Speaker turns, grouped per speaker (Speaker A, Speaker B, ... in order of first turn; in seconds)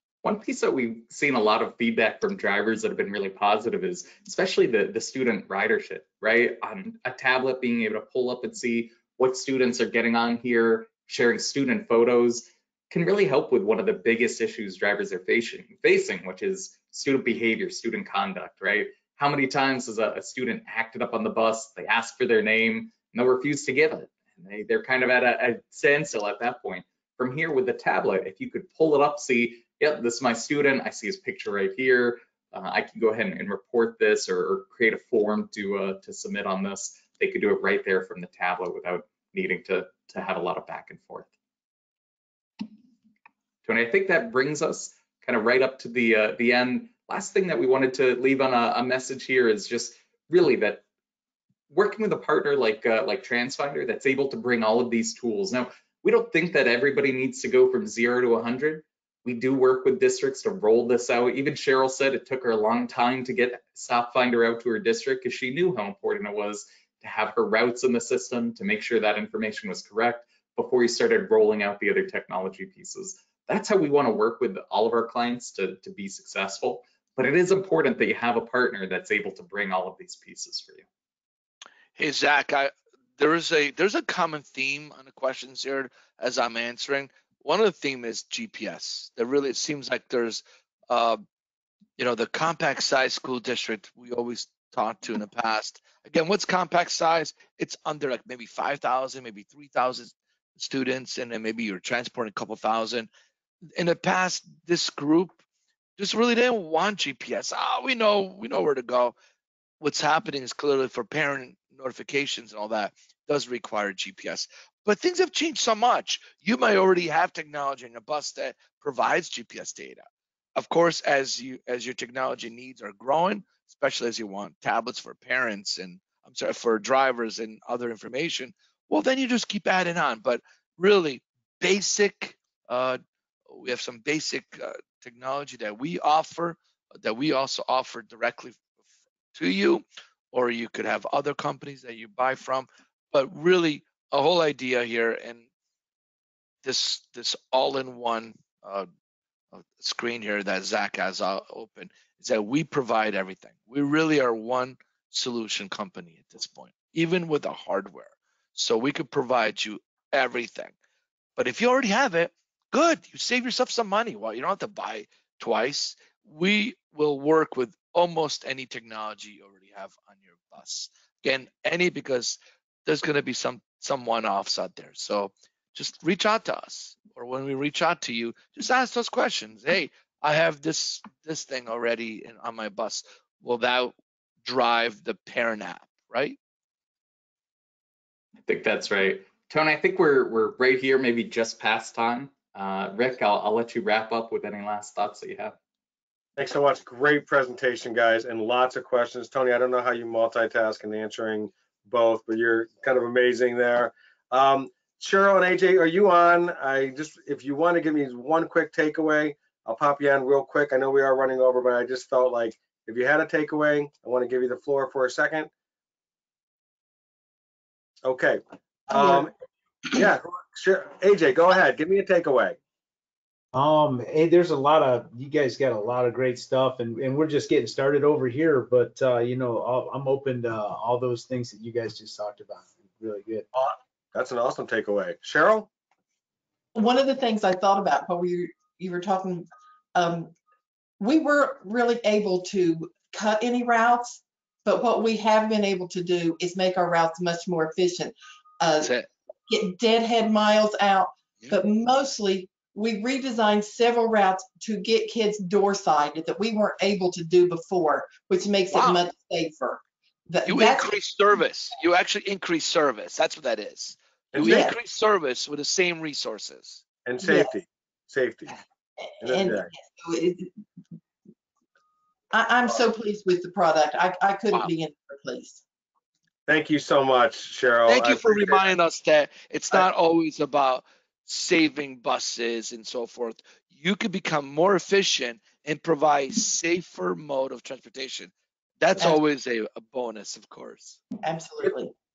Speaker A: 0.2-41.3, 43.6-50.8, 51.7-80.8, 188.4-195.6
Speaker B: 82.0-91.2, 92.0-103.1, 103.8-105.4, 106.0-109.1, 109.8-120.0, 120.5-133.0, 133.5-138.6, 139.3-145.4, 146.6-148.9, 149.5-160.7, 161.4-186.4, 248.8-249.1, 258.7-259.0, 260.4-266.8, 277.9-291.0
Speaker C: 196.4-215.5, 218.0-219.3, 219.9-222.6, 233.5-235.7, 264.3-264.7, 267.1-268.5, 269.2-269.7, 276.5-278.7
Speaker D: 218.9-219.2, 236.7-240.3, 241.0-248.9, 249.5-260.9, 264.4-264.8, 267.2-267.5, 268.5-270.5, 272.3-275.6, 291.2-291.9
Speaker E: 223.5-233.5